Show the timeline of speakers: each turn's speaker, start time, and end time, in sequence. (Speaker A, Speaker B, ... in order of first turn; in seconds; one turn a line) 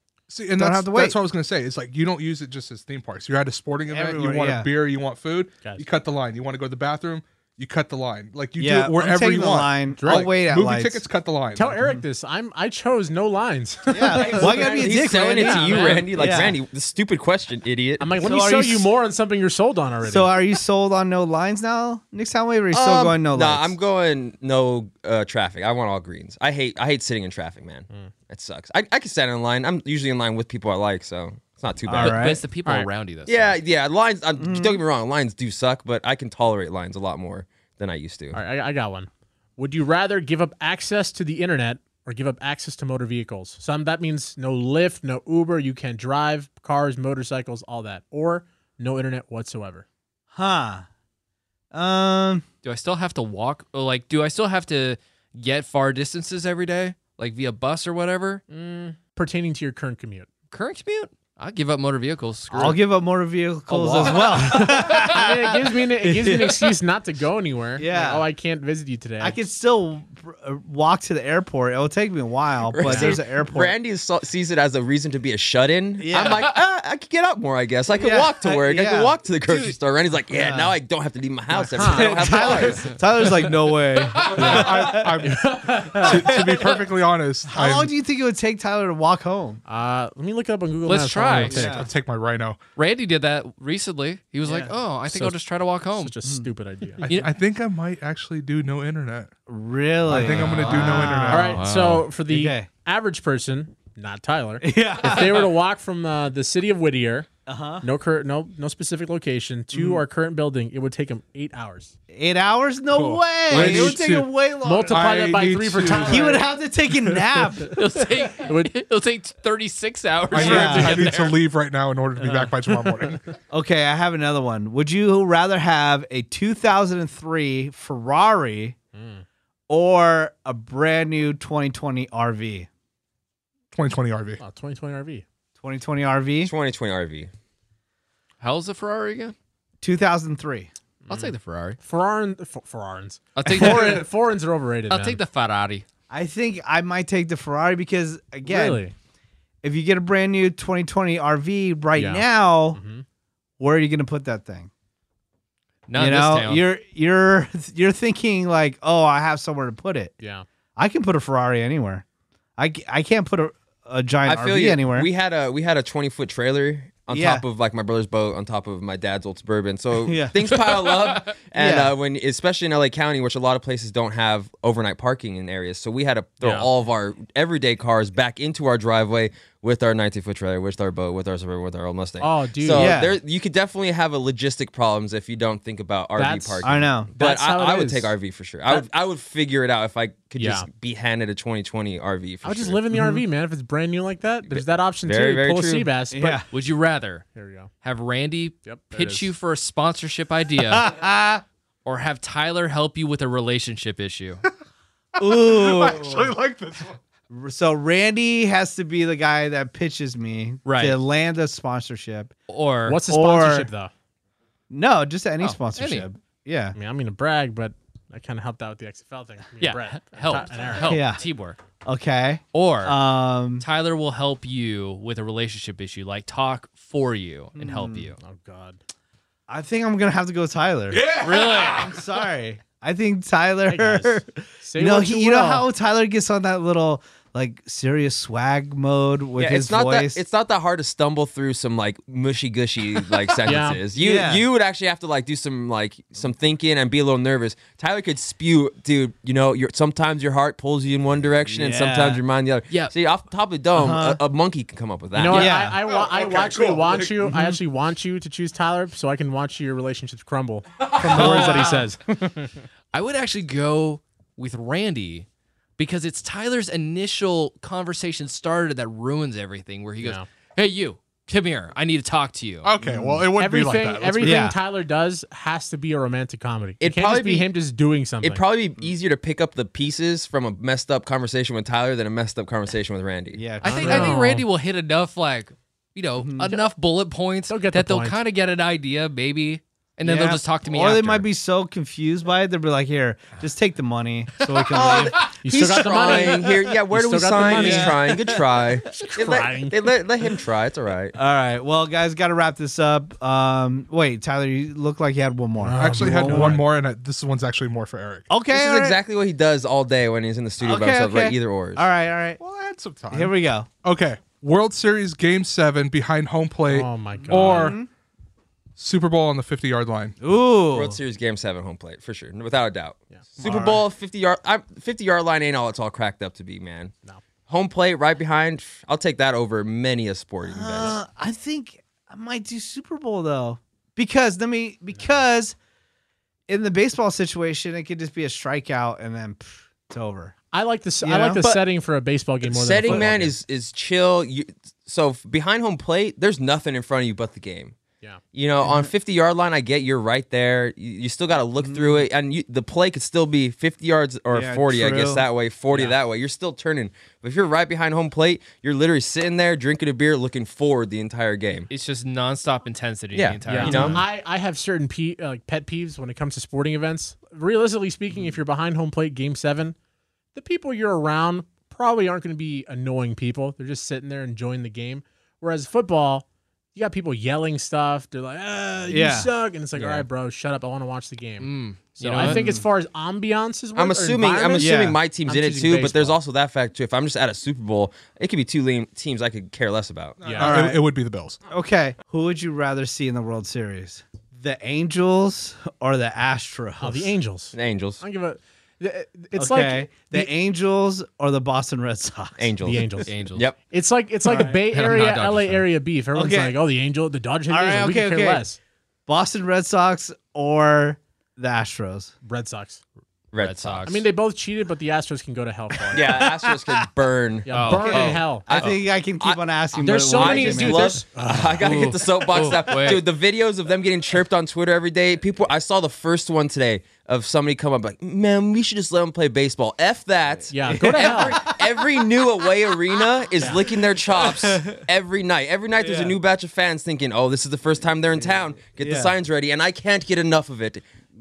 Speaker A: 0.3-11.8
Speaker B: 0.6-1.2
Speaker B: 3.9-4.7
Speaker B: 8.6-11.0
Speaker C: 9.9-10.3
Speaker C: 11.6-16.4
Speaker B: 13.9-16.5
Speaker D: 14.2-18.1
Speaker C: 18.0-20.3
Speaker B: 18.2-18.9
Speaker B: 20.0-23.7
Speaker D: 22.7-32.4
Speaker B: 31.9-32.4
Speaker E: 32.0-33.6
Speaker D: 33.3-38.4
Speaker B: 34.4-34.8
Speaker C: 38.3-49.9
Speaker B: 50.3-50.8
Speaker B: 51.7-52.4
Speaker E: 52.6-58.4
Speaker C: 58.5-60.3
Speaker E: 60.5-62.8
Speaker B: 62.5-66.7
Speaker E: 63.7-64.8
Speaker C: 64.5-69.4
Speaker B: 67.8-68.2
Speaker B: 69.2-73.7
Speaker D: 72.7-83.0
Speaker C: 72.8-73.2
Speaker B: 76.0-76.5
Speaker B: 77.9-79.7
Speaker B: 80.3-80.7
Speaker C: 81.5-82.7
Speaker B: 81.8-85.2
Speaker A: 84.3-87.9
Speaker C: 85.2-86.4
Speaker B: 86.0-86.7
Speaker B: 87.5-89.6
Speaker C: 89.7-91.8
Speaker E: 90.8-91.6
Speaker A: 91.5-92.6
Speaker B: 91.5-91.9
Speaker E: 92.8-96.1
Speaker B: 94.4-94.7
Speaker C: 95.1-95.3
Speaker C: 96.0-97.1
Speaker B: 96.2-96.5
Speaker A: 97.0-99.3
Speaker E: 97.0-97.3
Speaker B: 99.5-101.6
Speaker A: 100.1-101.6
Speaker C: 100.2-107.3
Speaker E: 100.4-102.0
Speaker B: 102.3-102.7
Speaker B: 104.6-105.5
Speaker B: 107.5-107.8
Speaker C: 107.8-111.9
Speaker B: 109.7-110.0
Speaker B: 112.1-115.1
Speaker A: 112.9-114.3
Speaker C: 113.5-114.0
Speaker C: 114.6-116.5
Speaker A: 114.9-116.3
Speaker B: 116.0-117.7
Speaker C: 117.1-118.7
Speaker E: 117.7-121.4
Speaker A: 120.3-123.2
Speaker B: 120.4-121.0
Speaker C: 120.5-120.8
Speaker C: 122.2-123.2
Speaker B: 123.5-128.8
Speaker C: 128.9-129.2
Speaker B: 129.7-132.7
Speaker A: 133.7-134.4
Speaker C: 134.4-135.2
Speaker B: 135.6-136.5
Speaker D: 136.4-137.3
Speaker E: 138.4-139.3
Speaker B: 139.8-140.7
Speaker C: 141.0-145.2
Speaker E: 141.1-141.8
Speaker E: 143.4-144.0
Speaker B: 143.4-144.0
Speaker E: 144.9-145.8
Speaker B: 146.1-148.8
Speaker C: 148.4-148.9
Speaker B: 149.6-152.8
Speaker C: 151.9-153.0
Speaker B: 153.6-154.7
Speaker E: 155.9-156.6
Speaker B: 155.9-160.1
Speaker C: 160.2-160.4
Speaker B: 160.8-162.0
Speaker B: 162.6-165.1
Speaker D: 164.2-192.8
Speaker B: 167.1-167.4
Speaker B: 170.0-170.3
Speaker B: 171.5-171.9
Speaker C: 176.4-176.7
Speaker C: 182.2-183.0
Speaker B: 182.7-183.2
Speaker C: 186.2-188.1
Speaker B: 186.6-187.1
Speaker C: 190.4-190.7
Speaker C: 192.4-196.4
Speaker B: 192.9-193.2
Speaker D: 194.4-195.9
Speaker B: 196.1-196.4
Speaker E: 196.5-197.3
Speaker C: 197.3-197.7
Speaker E: 197.8-200.8
Speaker C: 198.6-199.3
Speaker B: 200.7-201.4
Speaker E: 201.8-204.4
Speaker A: 205.2-206.9
Speaker B: 205.2-206.3
Speaker B: 207.3-212.3
Speaker E: 210.6-211.0
Speaker E: 212.5-213.0
Speaker C: 212.8-213.9
Speaker B: 213.1-213.7
Speaker B: 214.7-216.8
Speaker E: 215.4-216.1
Speaker C: 216.8-221.0
Speaker E: 219.6-221.6
Speaker B: 220.8-221.2
Speaker B: 221.8-223.6
Speaker E: 222.5-223.0
Speaker E: 223.6-228.2
Speaker B: 227.6-228.1
Speaker C: 228.2-228.8
Speaker B: 229.5-231.1
Speaker A: 230.9-231.9
Speaker E: 231.2-231.9
Speaker B: 231.7-240.2
Speaker C: 233.7-235.7
Speaker D: 239.4-255.6
Speaker C: 243.4-243.8
Speaker B: 243.9-244.4
Speaker B: 251.4-252.2
Speaker B: 253.7-254.2
Speaker C: 255.1-262.6
Speaker B: 255.3-255.8
Speaker A: 255.8-257.2
Speaker B: 257.3-257.6
Speaker B: 261.0-261.8
Speaker E: 261.2-261.7
Speaker E: 262.9-265.3
Speaker E: 265.8-272.7
Speaker C: 270.0-270.3
Speaker A: 272.6-274.4
Speaker B: 272.8-273.2
Speaker C: 273.3-278.4
Speaker B: 274.2-274.6
Speaker D: 276.8-277.5
Speaker D: 278.2-283.4
Speaker B: 283.3-284.2
Speaker E: 283.6-291.2
Speaker C: 283.6-284.4
Speaker B: 286.2-286.5
Speaker C: 287.5-288.2
Speaker B: 290.0-295.2
Speaker D: 294.7-301.1
Speaker C: 295.4-298.1
Speaker B: 297.4-298.3
Speaker C: 298.9-299.9
Speaker B: 301.1-306.6
Speaker C: 305.6-306.6
Speaker A: 305.8-308.3
Speaker B: 308.3-309.0
Speaker D: 308.5-311.9
Speaker B: 310.6-312.4
Speaker A: 312.4-317.8
Speaker B: 313.1-313.7
Speaker C: 316.7-317.7
Speaker B: 317.3-317.9
Speaker A: 318.8-320.1
Speaker B: 320.2-321.0
Speaker D: 320.7-326.9
Speaker C: 323.1-323.4
Speaker B: 323.4-323.8
Speaker D: 327.5-331.0
Speaker B: 330.4-335.6
Speaker C: 334.9-335.2
Speaker B: 336.5-340.3
Speaker C: 340.5-343.3
Speaker B: 341.0-341.4
Speaker D: 342.4-347.8
Speaker B: 342.8-343.1
Speaker D: 348.3-361.7
Speaker B: 348.6-348.9
Speaker B: 351.6-352.1
Speaker B: 354.3-355.2
Speaker C: 355.7-355.9
Speaker E: 361.7-364.0
Speaker D: 363.1-364.0
Speaker C: 363.4-369.7
Speaker C: 370.3-386.2
Speaker B: 378.9-379.3
Speaker E: 381.4-382.4
Speaker B: 382.2-382.6
Speaker D: 383.7-390.2
Speaker B: 384.6-385.0
Speaker C: 390.2-390.6
Speaker A: 390.2-391.4
Speaker B: 390.4-390.8
Speaker B: 391.5-397.1
Speaker C: 396.8-400.3
Speaker D: 397.5-398.0
Speaker B: 399.4-402.8
Speaker D: 402.4-403.6
Speaker C: 402.6-408.6
Speaker E: 403.1-403.5
Speaker B: 404.3-404.6
Speaker E: 404.7-405.6
Speaker B: 406.1-406.6
Speaker B: 407.5-408.4
Speaker B: 409.1-412.1
Speaker C: 412.2-412.8
Speaker D: 413.3-413.9
Speaker E: 413.4-414.1
Speaker C: 413.9-416.1
Speaker D: 415.9-440.8
Speaker B: 415.9-416.9
Speaker C: 417.4-418.5
Speaker E: 417.5-418.7
Speaker B: 417.7-421.0
Speaker C: 419.8-421.6
Speaker E: 421.6-423.1
Speaker C: 430.5-431.4
Speaker B: 430.7-431.4
Speaker C: 433.4-433.6
Speaker B: 434.1-434.8
Speaker B: 435.8-436.2
Speaker B: 438.8-439.1